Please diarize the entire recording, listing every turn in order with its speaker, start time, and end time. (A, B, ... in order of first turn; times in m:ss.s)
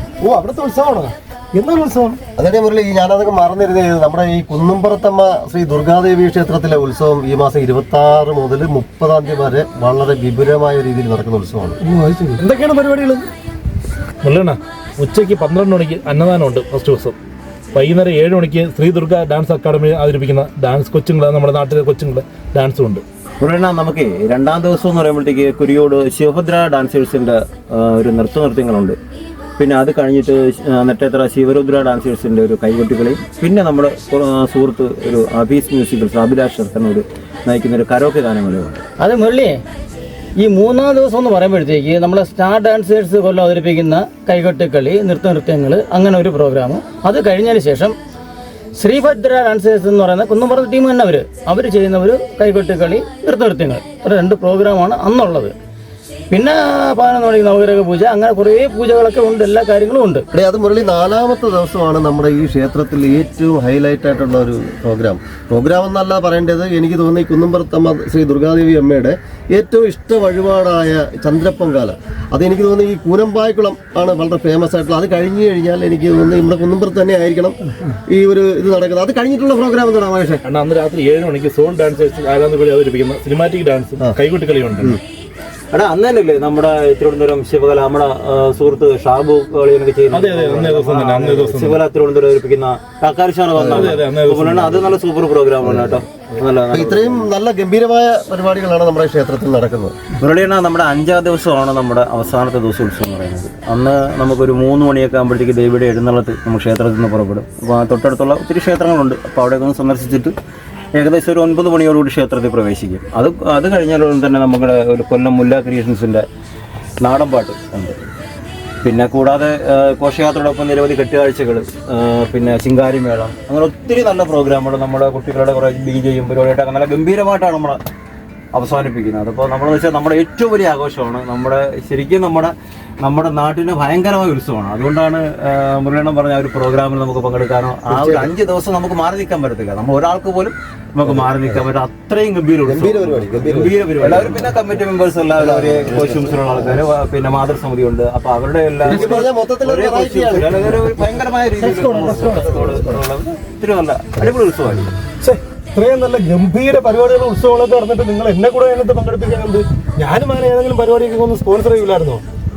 0:00.2-0:02.2 A
0:02.4-0:11.8 B
0:11.8-0:13.2 A
0:14.2-0:17.2 C
0:17.7-0:23.0 C
0:23.4-0:29.0 D
0:29.6-0:38.8 D
0:39.0-0:39.6 E
0:40.4-0:48.0 E
0:48.8-0:55.5 E
0:56.3-1:00.2 E
1:00.3-1:20.4 B
1:20.4-1:25.0 C
1:25.7-1:37.3 D
1:30.1-1:31.8 C
1:33.5-1:34.0 B
1:33.6-1:34.9 C
1:35.6-1:36.1 B
1:36.7-1:40.0 B
1:40.2-1:50.3 D
1:50.9-1:56.2 D
1:57.0-1:58.0 D
1:58.8-2:07.8 D
2:08.5-2:34.9 D
2:17.9-2:18.3 B
2:21.0-2:21.6 B
2:22.6-2:24.5 B
2:25.3-2:26.8 B
2:28.8-2:30.9 B
2:28.9-2:29.2 E
2:31.6-2:32.7 E
2:31.7-2:32.9 B
2:35.2-2:42.2 A